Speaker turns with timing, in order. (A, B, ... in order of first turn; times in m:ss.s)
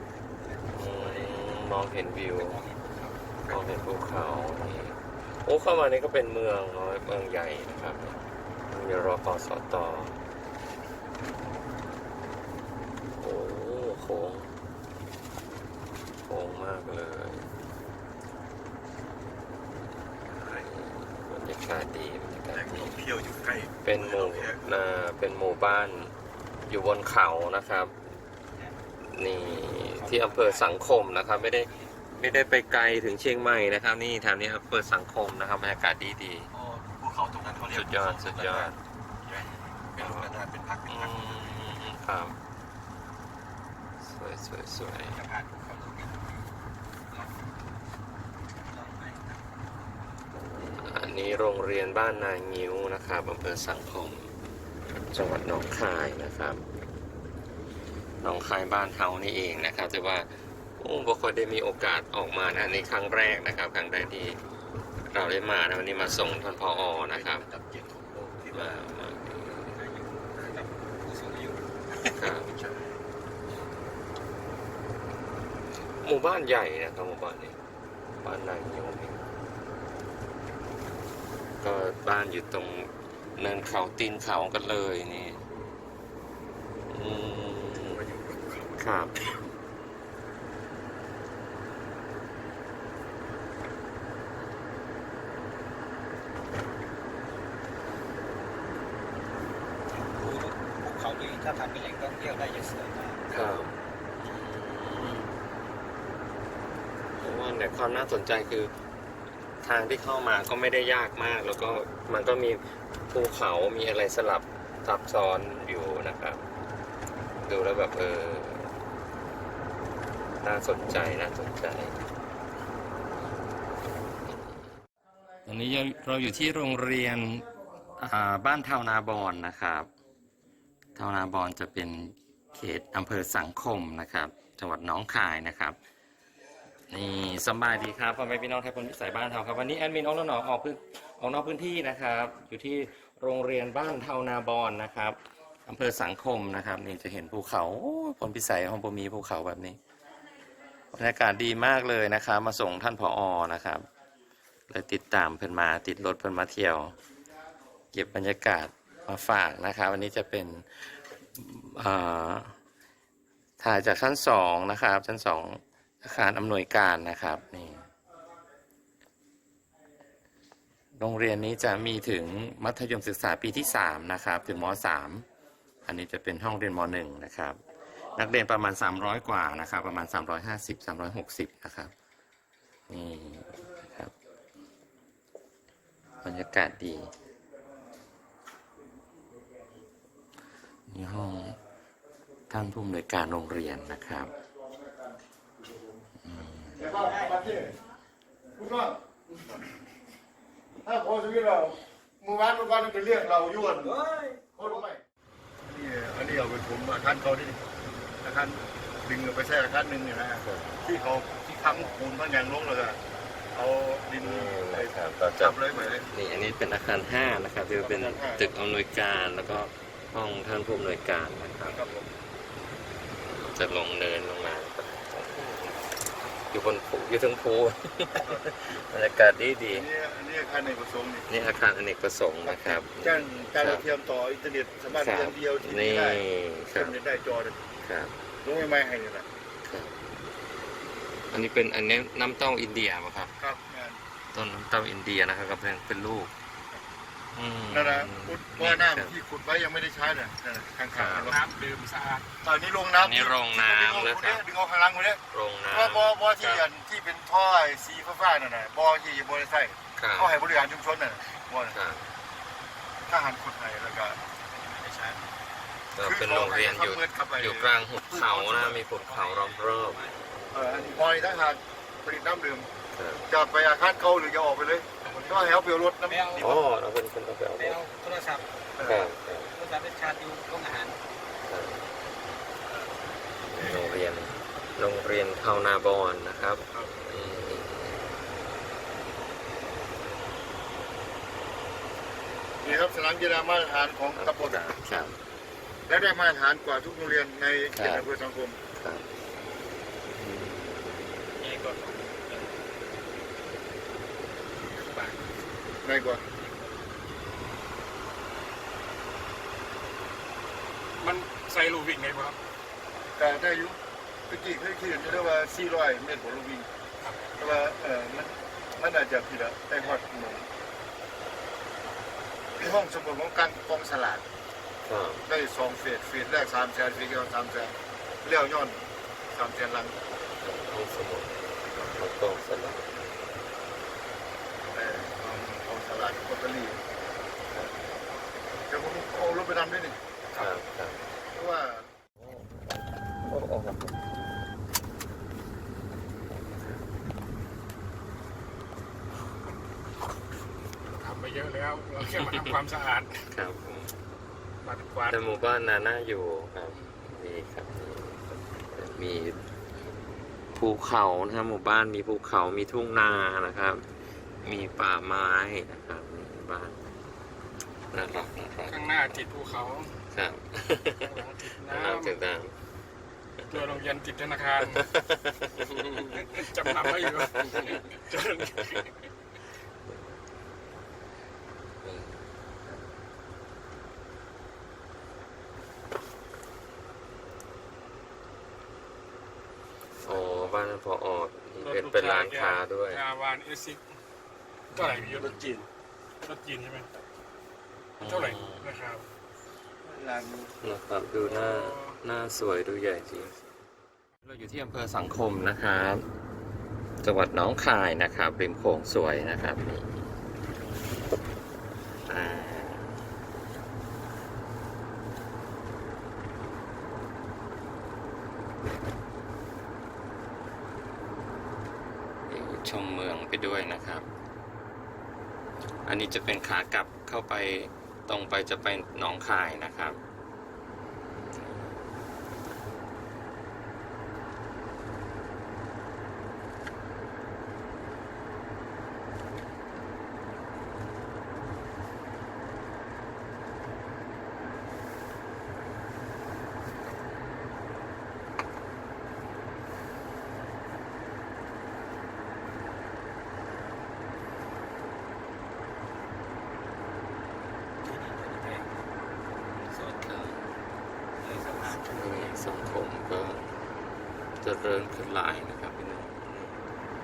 0:00.3-0:01.4 A
0:00.7-0:02.6 B
0:02.4-0:03.6 A
0:03.5-0:10.2 B
0:13.2-0:14.5 B
0:16.3-0:17.5 B
0:20.3-0:20.7 C
0:20.4-0:23.0 B
0:22.5-0:24.8 C
0:23.8-0:26.1 B
0:26.7-0:28.0 B
0:28.5-0:28.9 A
0:29.1-0:36.5 B
0:29.6-0:32.1 A
0:36.5-0:41.7 C
0:37.7-0:38.8 B
0:40.0-0:40.3 B
0:40.9-0:42.4 B
0:44.0-0:45.2 B
0:45.0-0:46.6 A
0:47.1-0:47.4 A
0:48.6-0:49.6 A
0:50.6-0:54.3 B
0:55.1-0:56.6 B
0:58.2-1:04.4 B
1:05.1-1:07.5 B
1:06.7-1:09.0 C
1:08.5-1:09.8 B
1:09.6-1:12.3 A
1:12.2-1:12.5 B
1:12.2-1:13.0 C
1:16.0-1:17.6 B
1:18.2-1:19.2 B
1:21.6-1:25.4 B
1:26.9-1:28.1 B
1:27.8-1:28.8 C
1:28.8-1:29.3 B
1:39.9-1:43.3 A
1:43.3-1:43.7 B
1:44.2-1:45.3 B
1:47.2-1:48.7 B
1:49.6-1:56.4 B
1:57.4-1:58.7 B
2:00.4-2:02.0 B
2:05.5-2:09.9 B
2:11.0-2:15.8 B
2:16.9-2:29.8 B
2:30.9-2:33.9 B
2:34.7-2:37.0 B
2:37.9-2:42.6 B
2:43.6-2:47.9 B
2:51.0-2:55.3 B
2:55.8-2:57.6 B
2:58.2-3:01.9 B
3:02.9-3:04.1 B
3:06.2-3:07.1 B
3:10.9-3:11.6 B
3:12.5-3:14.4 B
3:14.6-3:16.0 D
3:16.2-3:16.9 B
3:16.7-3:17.8 D
3:16.8-3:17.4 A
3:18.6-3:19.0 D
3:20.8-3:24.0 D
3:23.8-3:24.5 A
3:24.6-3:25.0 D
3:25.6-3:27.6 D
3:28.2-3:33.0 D
3:30.4-3:30.8 B
3:30.8-3:32.0 A
3:33.5-3:36.1 D
3:34.2-3:42.0 B
3:37.8-3:38.5 D
3:41.7-3:42.1 D
3:43.2-3:45.8 B
3:46.5-3:49.9 B
3:49.7-3:51.3 D
3:51.3-3:53.9 B
3:52.4-3:57.6 D
3:55.0-3:57.0 B
3:57.8-3:58.1 B
3:58.4-3:59.3 D
3:59.6-4:00.0 B
4:01.3-4:03.3 B
4:03.4-4:04.0 D
4:04.3-4:06.3 B
4:07.4-4:09.1 B
4:07.7-4:11.4 D
4:10.9-4:11.3 B
4:11.2-4:12.2 E
4:12.4-4:21.8 D
4:13.0-4:14.4 B
4:15.3-4:16.6 B
4:20.0-4:20.3 B
4:21.7-4:22.1 B
4:23.1-4:24.2 D
4:24.3-4:25.4 A
4:25.9-4:30.0 B
4:26.0-4:28.8 D
4:28.9-4:30.3 A
4:30.5-4:32.7 D
4:32.9-4:33.3 B
4:33.3-4:36.6 D
4:35.1-4:35.4 A
4:36.0-4:36.5 A
4:36.4-4:37.8 B
4:37.6-4:38.5 A
4:38.8-4:39.1 D
4:38.8-4:39.5 B
4:39.5-4:41.0 A
4:41.5-4:41.8 B
4:43.5-4:48.0 B
4:52.6-4:54.6 D
4:54.2-4:55.2 B
4:55.9-4:58.6 D
4:57.7-4:58.1 B
4:58.8-4:59.1 B
5:00.2-5:01.0 B
5:01.4-5:02.8 A
5:04.7-5:05.3 E
5:05.8-5:06.2 D
5:06.2-5:07.0 A
5:11.0-5:12.4 E
5:13.2-5:16.7 D
5:17.4-5:20.5 D
5:22.6-5:24.2 D
5:24.8-5:25.2 B
5:25.3-5:30.0 D
5:30.4-5:32.9 B
5:34.7-5:36.8 D
5:37.5-5:37.8 B
5:38.7-5:40.0 D
5:40.3-5:41.0 B
5:41.3-5:41.9 D
5:42.2-5:44.0 B
5:46.4-5:46.8 B
5:50.9-5:53.3 E
5:52.2-5:52.6 B
5:53.3-5:54.0 B
5:54.6-5:55.2 E
5:55.1-5:59.5 B
6:00.5-6:03.8 B
6:04.4-6:06.8 B
6:07.9-6:08.9 B
6:08.6-6:10.0 E
6:10.1-6:12.5 B
6:11.0-6:12.2 E
6:13.5-6:14.9 E
6:14.7-6:17.8 B
6:15.8-6:18.9 E
6:18.4-6:18.8 B
6:21.8-6:22.2 B
6:30.0-6:33.0 B
6:31.6-6:33.8 E
6:34.7-6:35.4 E
6:35.1-6:35.7 C
6:36.2-6:36.9 E
6:38.0-6:38.8 B
6:38.0-6:39.1 E
6:39.9-6:40.6 D
6:40.6-6:43.4 B
6:41.2-6:42.0 E
6:44.2-6:46.0 B
6:47.0-6:50.0 B
6:52.1-6:53.0 B
7:02.3-7:04.1 B
7:05.8-7:10.0 B
7:11.3-7:11.7 B
7:37.8-7:38.9 A
7:39.7-7:40.0 A
7:39.8-7:40.4 B
7:41.2-7:42.4 A
7:41.8-7:43.4 B
7:44.4-7:46.3 B